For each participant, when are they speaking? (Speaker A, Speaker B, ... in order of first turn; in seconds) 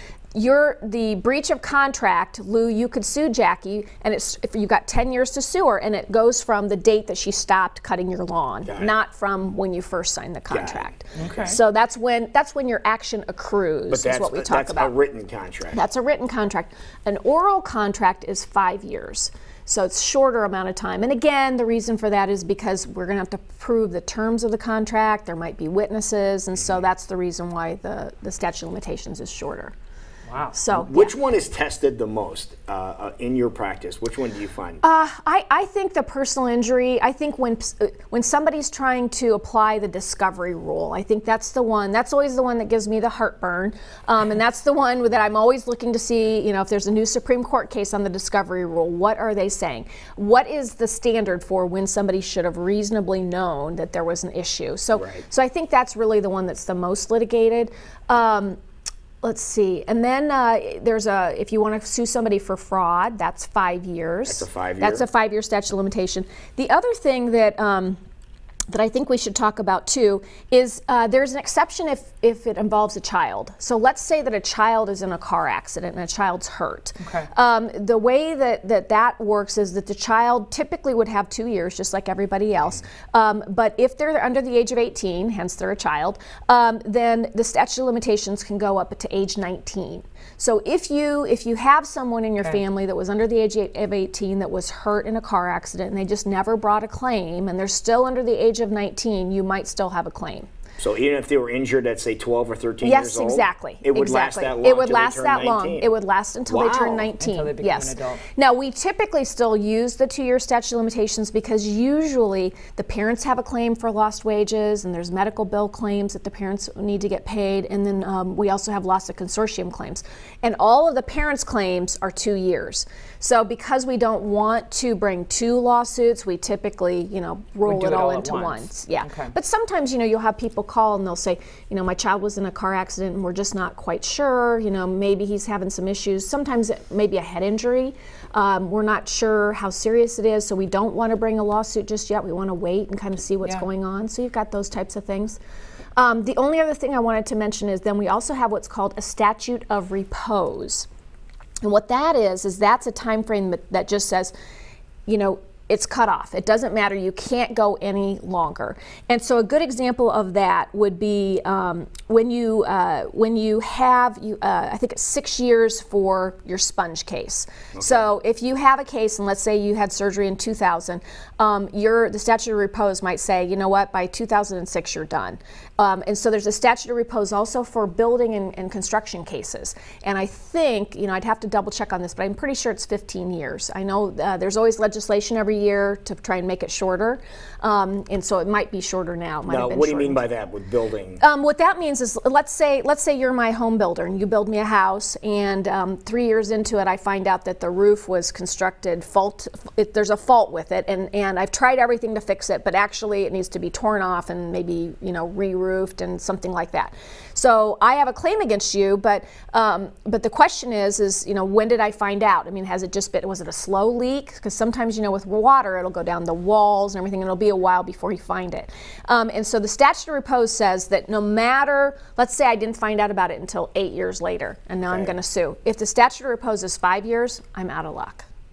Speaker A: 0.3-14.9, 15.7-29.7, 30.5-31.1, 34.8-58.6, 59.2-68.0, 68.7-100.5, 102.8-145.4, 146.0-150.9, 151.6-154.3, 155.1-190.2, 191.2-228.2
Speaker B: 8.6-8.9, 10.5-11.6, 13.9-15.8, 30.7-34.8, 54.9-55.2, 64.3-65.0, 100.8-105.9, 106.5-107.1, 167.7-168.1, 189.5-191.2, 224.9-225.1
Speaker C: 11.2-11.6, 30.3-30.5, 77.0-77.3, 107.2-108.2, 127.6-129.3